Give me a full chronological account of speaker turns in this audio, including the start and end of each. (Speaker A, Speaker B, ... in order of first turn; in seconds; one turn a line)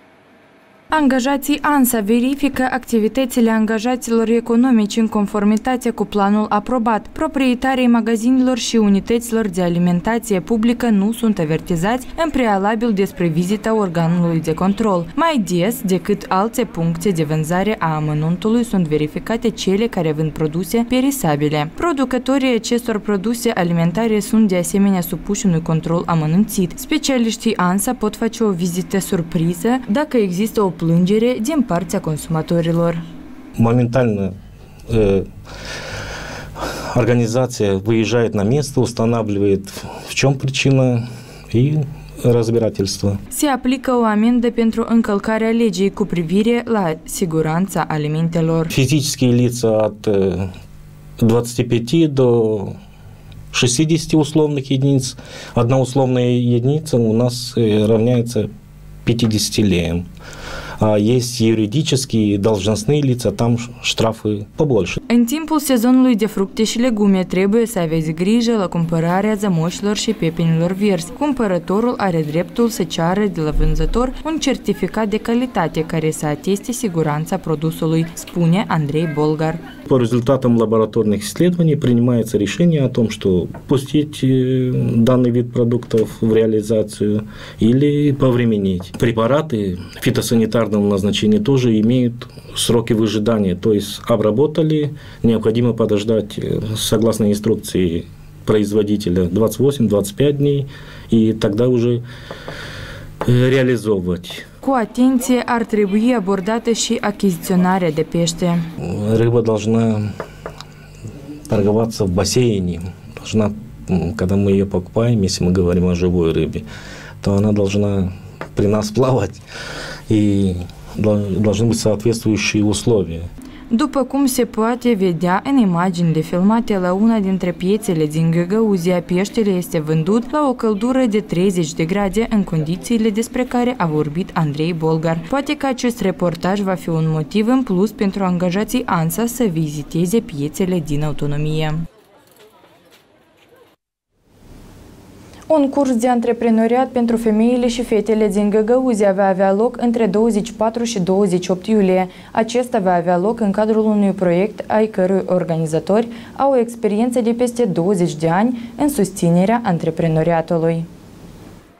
Speaker A: 0.9-33.0
Speaker B: 33.6-34.3
Speaker B: 34.9-35.2
Speaker B: 36.9-43.2
Speaker A: 43.3-48.7
Speaker B: 48.7-50.5
Speaker B: 51.2-52.7
Speaker B: 53.5-58.5
Speaker B: 59.0-60.0
Speaker B: 60.8-65.0
Speaker A: 65.1-79.6
Speaker B: 79.9-102.0
Speaker B: 103.2-104.4
Speaker A: 104.6-108.6
Speaker B: 108.8-110.1
Speaker B: 111.5-116.6
Speaker B: 117.2-119.4
Speaker B: 120.1-123.3
Speaker A: 123.7-141.8
Speaker A: 145.5-160.9